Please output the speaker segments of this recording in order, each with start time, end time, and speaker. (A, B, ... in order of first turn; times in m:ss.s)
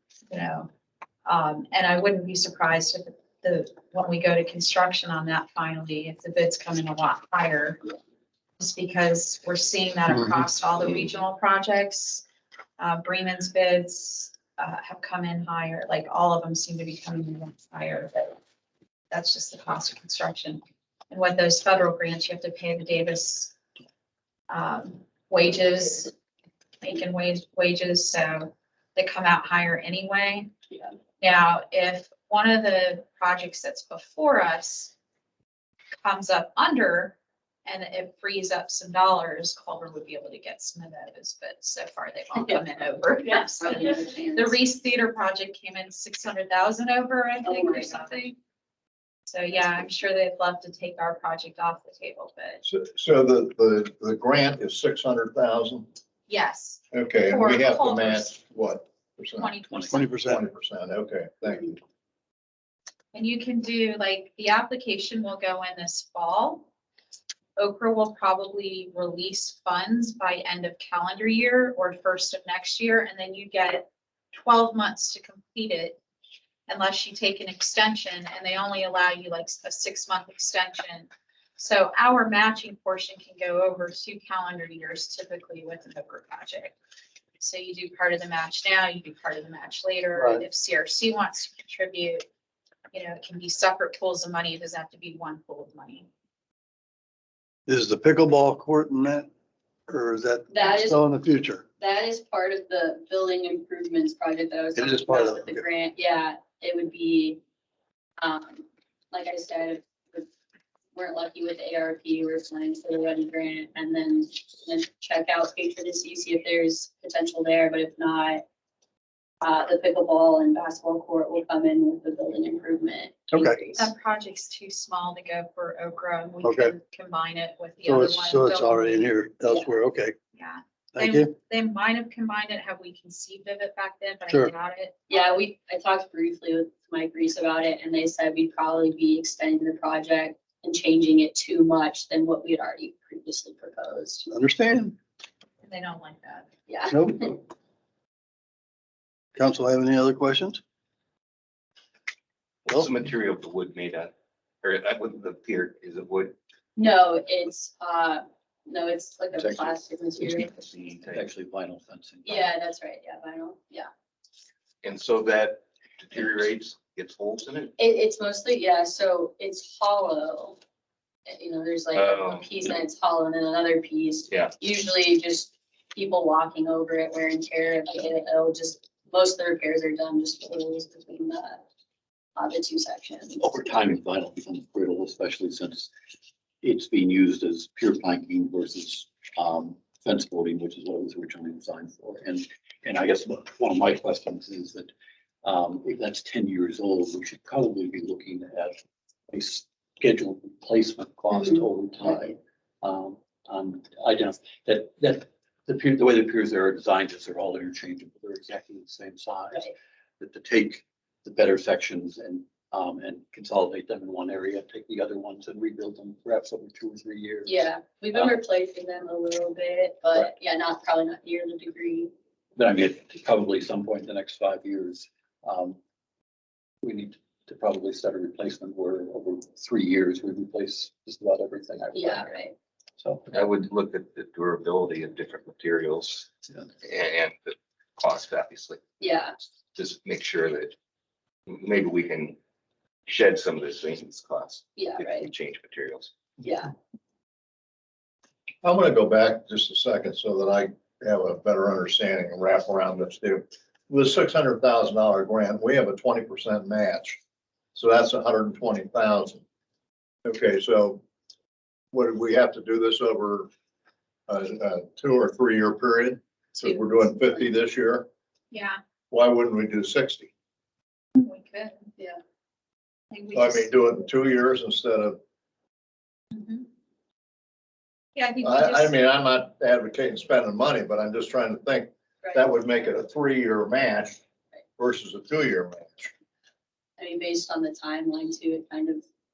0:00.3-0:00.7 A
0:01.2-0:07.8 A
0:08.6-0:12.2 A
0:12.8-0:18.4 A
0:19.1-0:23.5 A
0:24.5-0:26.1 A
0:26.8-0:30.5 A
0:31.2-0:34.9 A
0:36.0-0:48.4 A
0:43.2-0:44.6 B
0:47.4-0:48.2 B
0:49.3-0:52.6 A
0:52.6-0:55.9 C
0:56.3-0:58.3 A
0:56.9-0:59.5 C
0:59.4-1:00.1 A
0:59.9-1:00.4 D
1:00.2-1:01.8 C
1:03.1-1:06.6 A
1:07.6-1:16.0 A
1:16.7-1:26.8 A
1:27.4-1:32.2 A
1:30.1-1:30.4 D
1:32.9-1:36.1 A
1:37.7-1:39.3 D
1:39.9-1:41.6 D
1:40.5-1:41.0 B
1:41.8-1:47.4 B
1:44.7-1:45.6 D
1:48.2-1:50.3 B
1:50.9-1:58.4 B
1:59.4-2:03.9 B
2:03.3-2:03.6 D
2:03.8-2:09.1 A
2:06.4-2:06.7 D
2:07.8-2:10.2 D
2:10.3-2:15.0 A
2:10.9-2:11.3 D
2:15.1-2:24.2 B
2:24.3-2:25.0 D
2:25.6-2:26.5 A
2:26.7-2:27.4 B
2:26.9-2:27.2 D
2:29.3-2:30.6 D
2:32.7-2:36.4 E
2:36.8-2:40.7 B
2:39.3-2:39.6 F
2:40.3-2:41.3 E
2:41.1-2:42.5 F
2:42.2-2:43.9 B
2:44.8-2:47.7 E
2:47.8-2:50.6 B
2:51.3-3:01.6 B
2:51.9-2:52.6 E
3:02.4-3:03.5 B
3:03.4-3:05.9 F
3:06.6-3:14.9 F
3:15.4-3:18.8 F
3:19.3-3:37.6 F
3:37.4-3:42.1 B
3:42.6-3:45.8 F
3:46.8-3:52.4 F
3:51.9-3:52.5 B
3:53.0-3:53.3 F
3:53.3-3:58.8 E
3:59.0-3:59.3 B
3:59.7-4:00.7 E
4:01.5-4:02.4 E
4:03.0-4:06.1 E
4:04.8-4:05.3 B
4:06.4-4:06.7 B
4:08.6-4:17.2 C
4:17.7-4:19.4 C
4:20.2-4:21.0 C
4:21.9-4:23.5 C
4:24.3-4:28.1 C
4:28.5-4:28.8 A
4:29.1-4:30.3 C
4:31.1-4:31.9 A
4:33.1-4:33.7 A
4:33.3-4:35.2 C
4:36.3-4:36.6 A
4:38.2-4:38.9 A
4:38.4-4:44.2 C
4:44.8-4:46.1 C
4:47.0-4:49.0 B